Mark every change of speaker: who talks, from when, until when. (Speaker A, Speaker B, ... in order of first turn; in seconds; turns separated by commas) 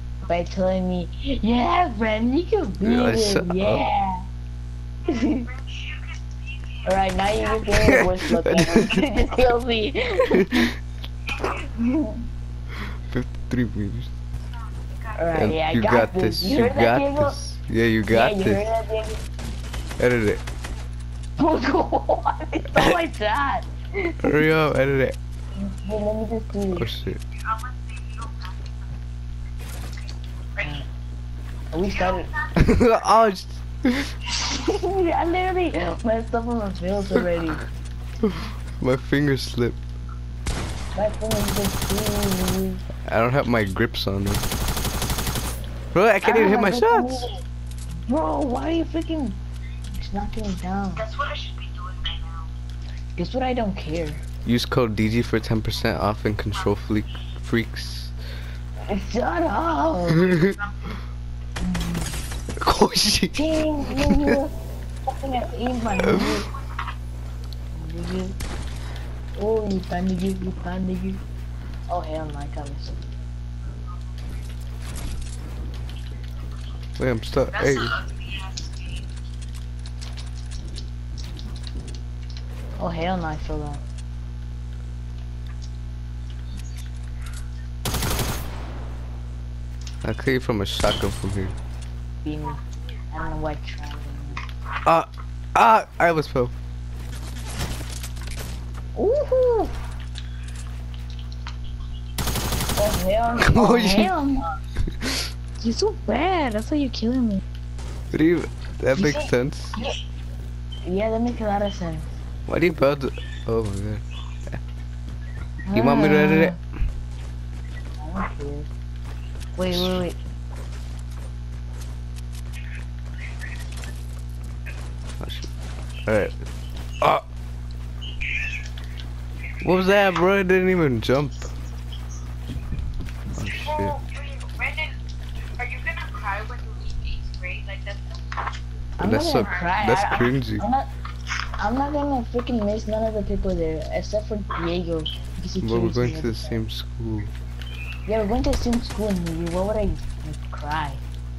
Speaker A: 0.2-4.2, Speaker B: 2.8-3.8, Speaker A: 5.0-5.5, Speaker C: 5.0-7.7, Speaker A: 6.8-10.7, Speaker B: 8.4-9.0, Speaker B: 10.3-10.7, Speaker A: 11.4-12.2, Speaker B: 13.1-14.1, Speaker C: 14.4-15.4, Speaker A: 15.2-17.4, Speaker B: 15.3-18.6, Speaker A: 18.1-19.2, Speaker B: 20.0-20.4, Speaker A: 21.4-24.4, Speaker B: 24.2-25.2, Speaker A: 25.5-26.9, Speaker B: 26.7-27.2, Speaker C: 27.1-30.8, Speaker A: 30.6-30.9, Speaker A: 31.7-32.3, Speaker C: 31.8-33.3, Speaker B: 32.6-34.1, Speaker A: 34.4-37.6, Speaker B: 38.2-39.8, Speaker A: 40.9-42.8, Speaker B: 43.1-44.5, Speaker B: 45.9-47.2, Speaker A: 46.2-47.4, Speaker A: 48.0-49.4, Speaker A: 49.9-51.0, Speaker C: 51.0-52.5, Speaker A: 53.2-54.2, Speaker B: 54.4-58.1, Speaker A: 58.9-60.5, Speaker A: 61.6-62.2, Speaker B: 62.6-64.4, Speaker A: 63.3-64.5, Speaker A: 65.1-66.5, Speaker B: 66.0-66.4, Speaker A: 67.7-68.4, Speaker A: 69.3-71.2, Speaker A: 71.9-73.1, Speaker B: 77.0-78.0, Speaker C: 77.5-79.1, Speaker A: 82.8-83.8, Speaker B: 90.0-91.5, Speaker A: 92.2-94.4, Speaker B: 94.8-96.5, Speaker A: 98.9-99.8, Speaker A: 102.8-104.5, Speaker B: 103.4-104.1, Speaker A: 105.6-107.4, Speaker B: 108.1-109.8, Speaker A: 108.9-109.9, Speaker A: 110.8-112.2, Speaker B: 112.5-114.6, Speaker A: 115.7-116.6, Speaker B: 115.7-116.6, Speaker A: 118.0-118.7, Speaker A: 119.5-120.2, Speaker B: 119.7-120.0, Speaker B: 125.2-125.5, Speaker B: 126.0-126.4, Speaker B: 129.6-131.5, Speaker B: 133.3-134.0, Speaker C: 133.4-135.0, Speaker C: 135.6-138.5, Speaker A: 139.0-140.9, Speaker B: 139.0-140.7, Speaker C: 139.4-139.8, Speaker A: 141.6-146.6, Speaker B: 145.6-147.3, Speaker A: 148.1-151.0